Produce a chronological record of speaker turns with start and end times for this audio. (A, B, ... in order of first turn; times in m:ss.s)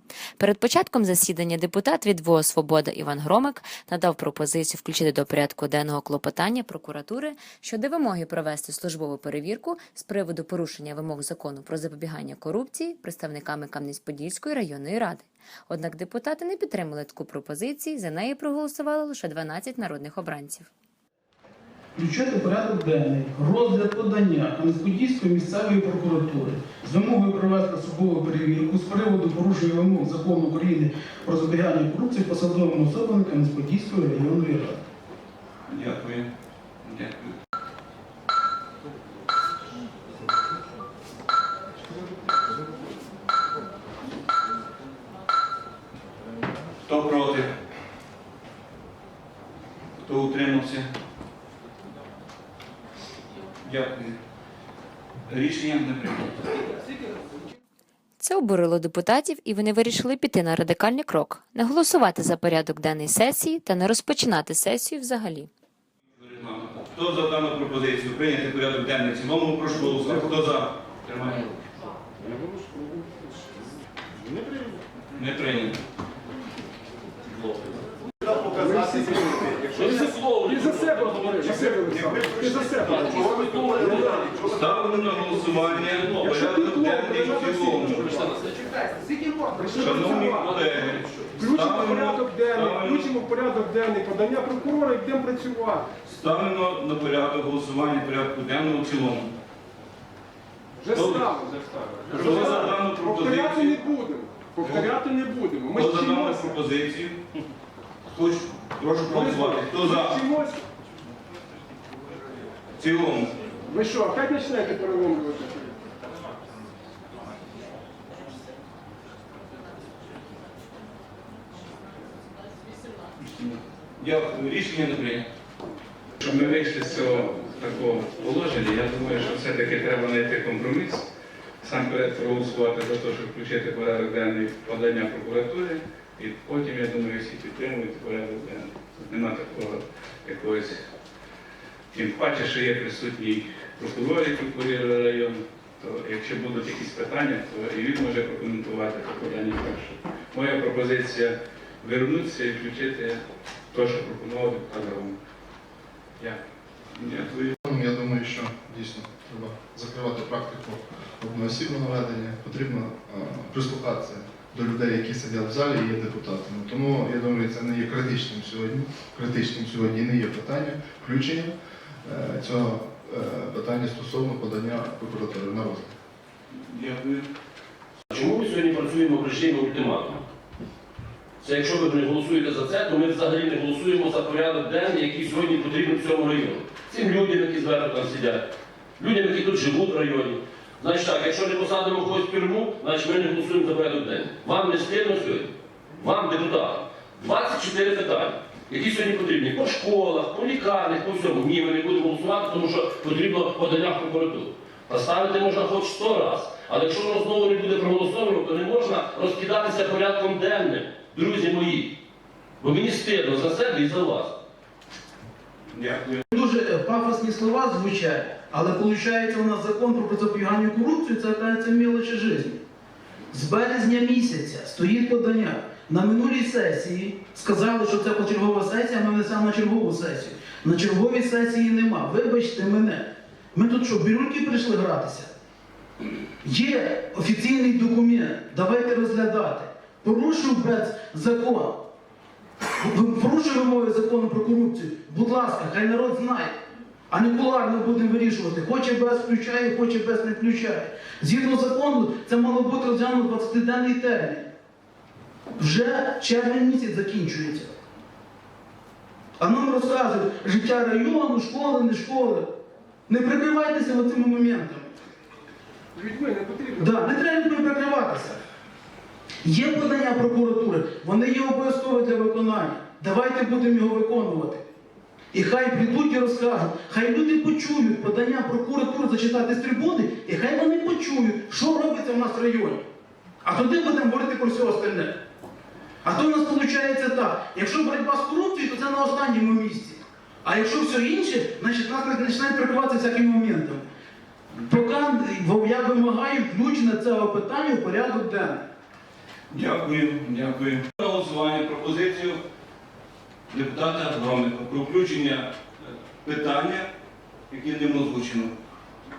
0:00.4-0:20.7 A
0:22.0-0:34.8 B
0:35.7-0:36.3 C
0:36.8-0:37.3 C
0:46.9-0:47.5 C
0:50.0-0:50.9 C
0:53.6-0:54.2 C
0:55.3-0:56.6 C
0:58.2-1:05.5 A
1:06.2-1:11.5 C
1:15.2-1:15.8 C
1:18.6-1:24.4 D
1:19.7-1:21.8 E
1:21.9-1:22.3 C
1:22.3-1:26.5 E
1:24.5-1:28.1 C
1:26.2-1:28.0 D
1:27.9-1:28.6 E
1:29.0-1:30.6 D
1:29.8-1:33.2 C
1:30.1-1:31.4 E
1:31.4-1:35.9 D
1:36.0-1:39.3 C
1:40.8-1:46.5 D
1:40.9-1:41.3 C
1:42.1-1:43.8 C
1:44.6-1:45.0 C
1:45.7-1:47.2 C
1:48.1-1:50.2 C
1:49.1-1:50.6 D
1:52.8-1:53.3 C
1:53.6-1:55.7 D
2:03.2-2:05.3 C
2:06.2-2:11.1 F
2:11.6-2:20.8 F
2:21.9-2:35.2 F
2:37.0-2:37.5 C
2:37.6-2:55.9 G
2:56.5-2:57.3 C
2:58.1-3:00.3 E
3:01.4-3:08.5 E
3:09.0-3:32.0 E
3:32.6-3:34.4 E
3:35.7-3:36.2 C
3:36.3-3:42.6 B
3:43.3-3:55.3 B
3:56.4-4:01.9 B
4:02.8-4:06.6 B
4:07.1-4:14.5 B
4:15.6-4:17.7 B
4:19.4-4:22.5 B
4:23.1-4:24.9 B
4:26.0-4:26.9 D
4:26.8-4:28.4 B
4:29.4-4:34.6 B
4:35.3-4:42.9 B
4:43.4-4:45.2 B
4:46.0-4:53.8 B
4:54.6-4:58.7 B
4:59.5-5:02.4 C
5:03.5-5:06.9 C
5:07.5-5:08.5 C